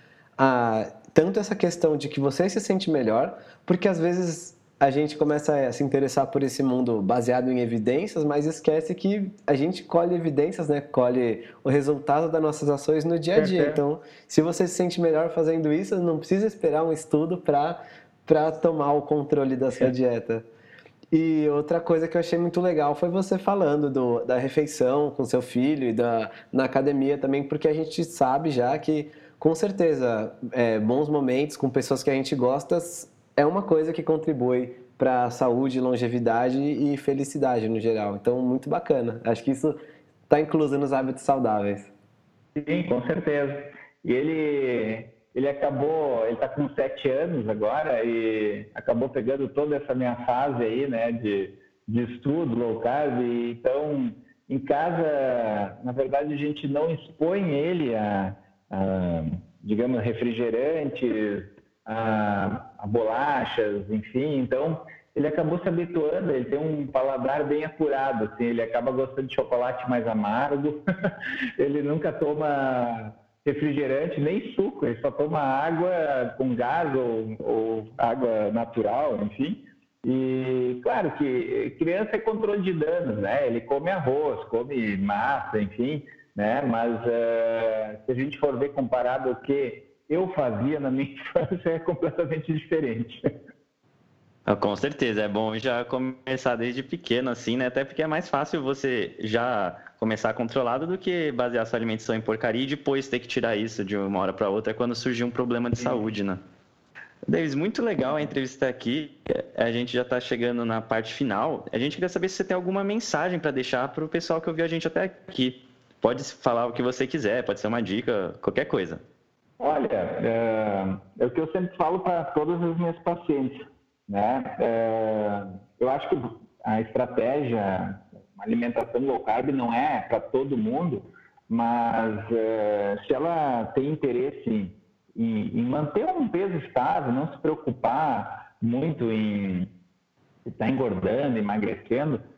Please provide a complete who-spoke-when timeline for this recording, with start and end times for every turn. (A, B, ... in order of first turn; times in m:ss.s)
0:00.4-0:20.4 A
0:13.4-0:13.8 B
0:21.1-0:41.9 A
0:42.6-1:33.3 B
1:34.5-1:46.4 C
1:47.3-1:59.0 C
1:59.6-2:19.7 B
2:20.4-2:22.2 B